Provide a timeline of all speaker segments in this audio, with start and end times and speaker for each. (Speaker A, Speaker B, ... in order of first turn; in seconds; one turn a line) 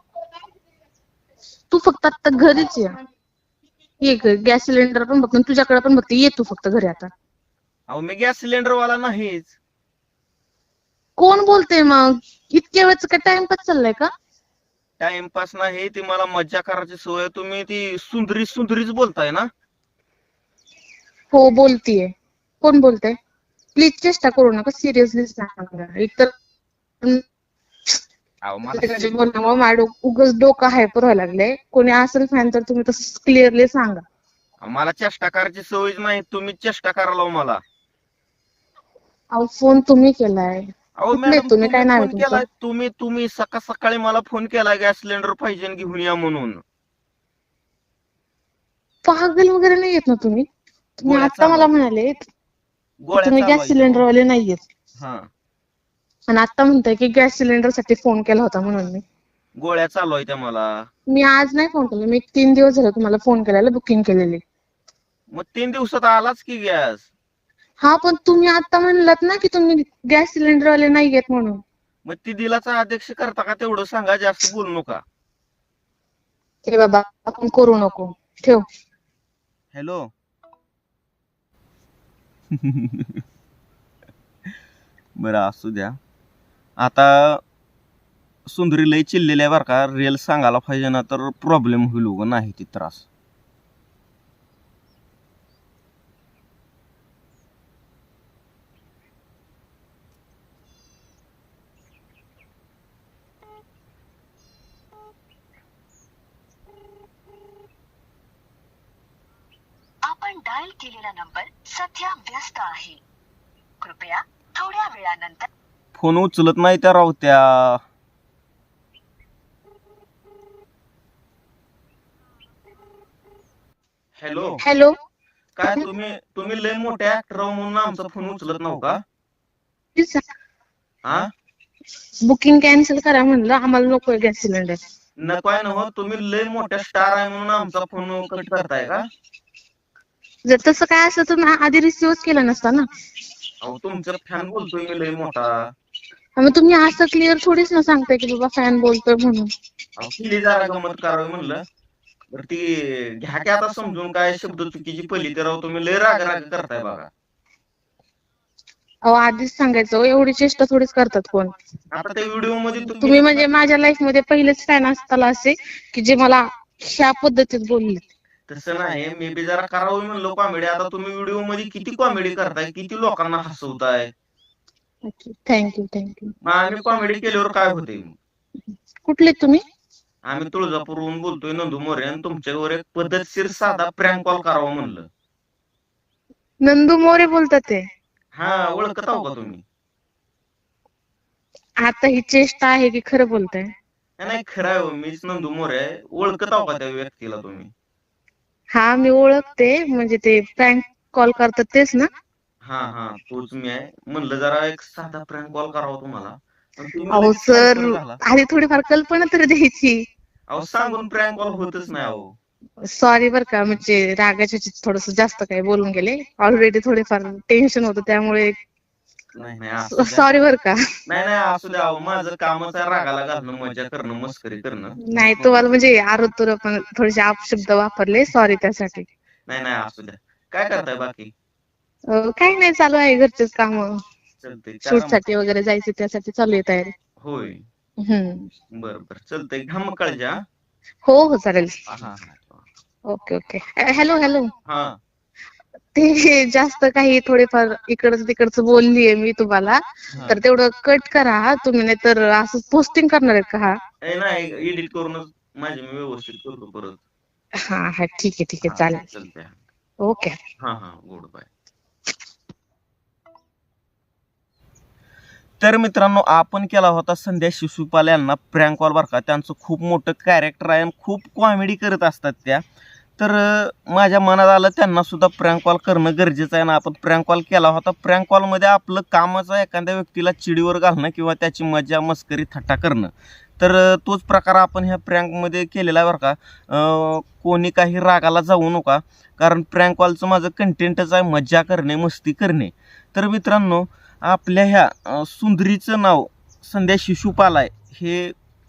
Speaker A: 1.7-2.9
Speaker A: 4.0-7.1
Speaker B: 7.9-9.6
Speaker A: 11.2-14.1
Speaker B: 15.0-19.5
Speaker A: 21.3-22.1
Speaker A: 22.6-23.2
Speaker A: 23.8-26.3
Speaker B: 28.4-29.1
Speaker A: 28.8-34.0
Speaker B: 34.6-37.6
Speaker A: 39.3-40.7
Speaker B: 41.0-46.6
Speaker A: 41.2-42.4
Speaker A: 49.0-50.4
Speaker B: 51.0-51.7
Speaker A: 51.0-52.1
Speaker B: 53.0-54.1
Speaker A: 53.2-54.6
Speaker B: 55.0-55.3
Speaker A: 56.3-59.0
Speaker B: 59.6-60.9
Speaker A: 61.1-64.4
Speaker B: 65.3-67.1
Speaker A: 67.8-71.6
Speaker B: 72.0-75.0
Speaker A: 76.7-78.7
Speaker B: 79.7-80.1
Speaker B: 82.5-83.2
Speaker B: 85.2-86.0
Speaker B: 86.8-87.4
Speaker B: 88.5-93.0
Speaker C: 110.0-113.0
Speaker C: 113.8-115.5
Speaker B: 115.9-117.8
Speaker B: 124.2-124.6
Speaker A: 124.6-124.9
Speaker B: 125.5-129.0
Speaker A: 130.0-130.2
Speaker A: 132.3-134.8
Speaker B: 135.2-139.0
Speaker A: 140.5-142.8
Speaker B: 143.6-145.6
Speaker A: 146.4-149.5
Speaker B: 150.0-151.6
Speaker B: 152.3-157.1
Speaker A: 159.1-161.5
Speaker B: 161.9-163.5
Speaker A: 163.0-168.0
Speaker B: 168.5-174.1
Speaker A: 175.1-176.3
Speaker B: 176.4-178.2
Speaker A: 179.1-179.6
Speaker B: 180.3-185.1
Speaker A: 186.7-187.8
Speaker B: 188.3-189.6
Speaker A: 191.8-193.7
Speaker B: 194.2-197.7
Speaker A: 198.7-202.1
Speaker B: 202.6-208.2
Speaker A: 207.2-210.0
Speaker B: 210.5-212.3
Speaker A: 212.9-218.5
Speaker B: 219.3-220.3
Speaker A: 220.0-220.8
Speaker B: 221.1-225.6
Speaker A: 225.1-229.1
Speaker B: 229.5-231.3
Speaker A: 232.1-233.9
Speaker B: 234.4-235.2
Speaker A: 234.9-236.9
Speaker B: 237.2-237.6
Speaker A: 238.0-238.5
Speaker B: 238.8-240.4
Speaker A: 241.0-241.7
Speaker B: 241.9-242.6
Speaker A: 243.1-244.5
Speaker B: 244.7-245.0
Speaker A: 245.9-253.7
Speaker B: 250.1-250.4
Speaker B: 254.0-257.0
Speaker A: 257.6-259.0
Speaker B: 258.6-259.5
Speaker A: 260.0-260.4
Speaker B: 260.6-261.5
Speaker B: 265.6-272.6
Speaker B: 273.2-298.3